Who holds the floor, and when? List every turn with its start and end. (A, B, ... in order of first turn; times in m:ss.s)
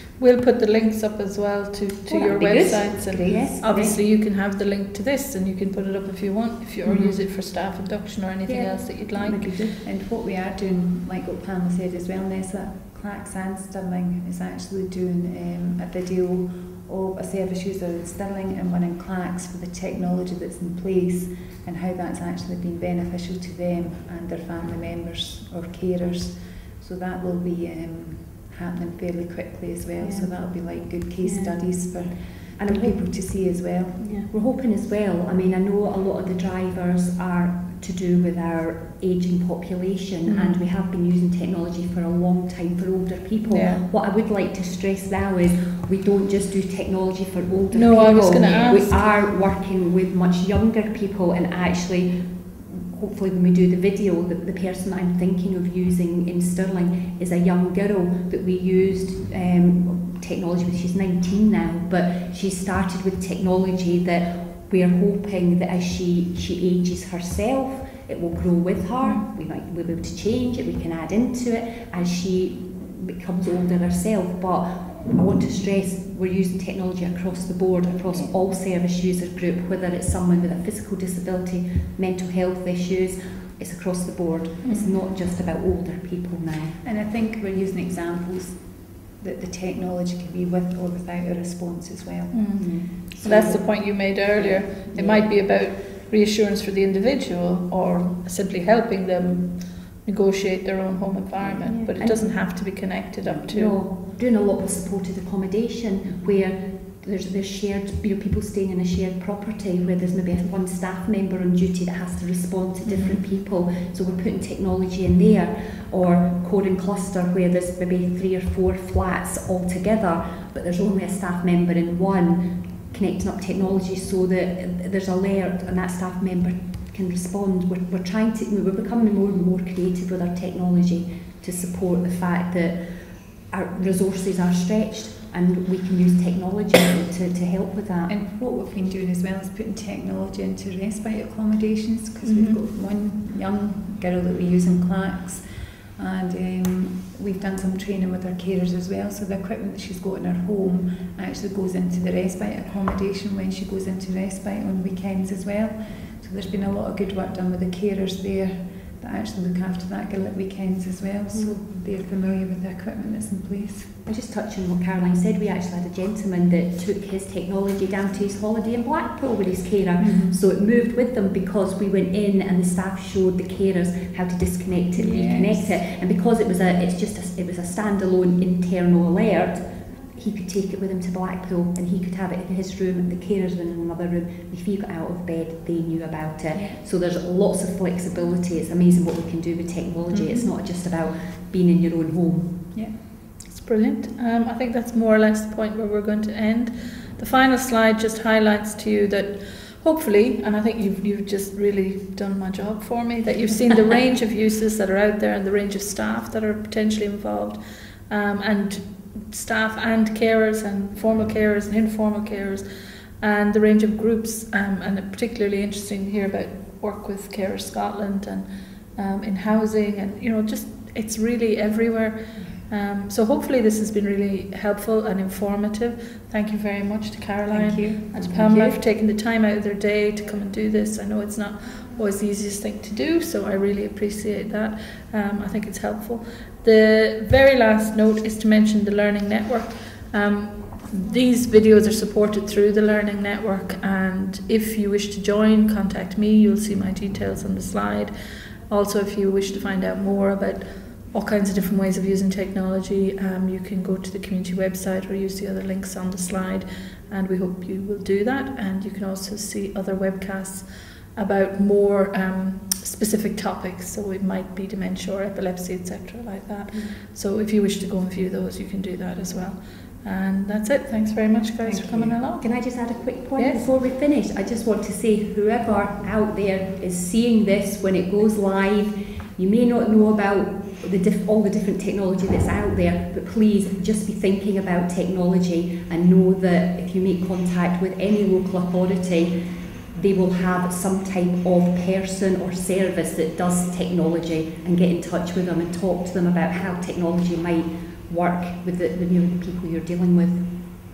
0:00.2-0:09.5 A
0:02.1-0:04.0 B
0:03.1-0:03.4 C
0:06.8-0:07.2 B
0:08.5-0:09.8 B
0:09.8-0:34.2 C
0:30.0-0:31.9 B
0:32.6-0:33.0 B
0:34.0-1:26.8 B
0:40.3-0:40.6 A
0:43.4-0:43.9 A
0:47.7-0:49.0 A
1:24.6-1:24.9 A
1:26.8-1:33.6 C
1:32.3-1:43.8 A
1:32.6-1:33.5 B
1:34.4-1:35.3 B
1:41.5-2:12.9 B
2:13.5-2:18.2 B
2:18.1-2:25.4 C
2:22.2-2:22.6 A
2:26.0-2:43.9 C
2:41.3-2:41.8 B
2:44.0-3:12.7 B
2:50.0-2:50.4 C
2:55.0-2:55.8 C
3:06.5-3:06.8 C
3:10.1-3:10.5 C
3:13.5-3:32.7 A
3:33.2-4:08.1 A
3:47.5-3:48.0 C
3:47.6-3:48.8 B
4:08.7-4:32.7 A
4:31.6-4:32.2 C
4:32.4-4:49.4 B
4:33.4-4:33.7 A
4:49.9-5:00.5 B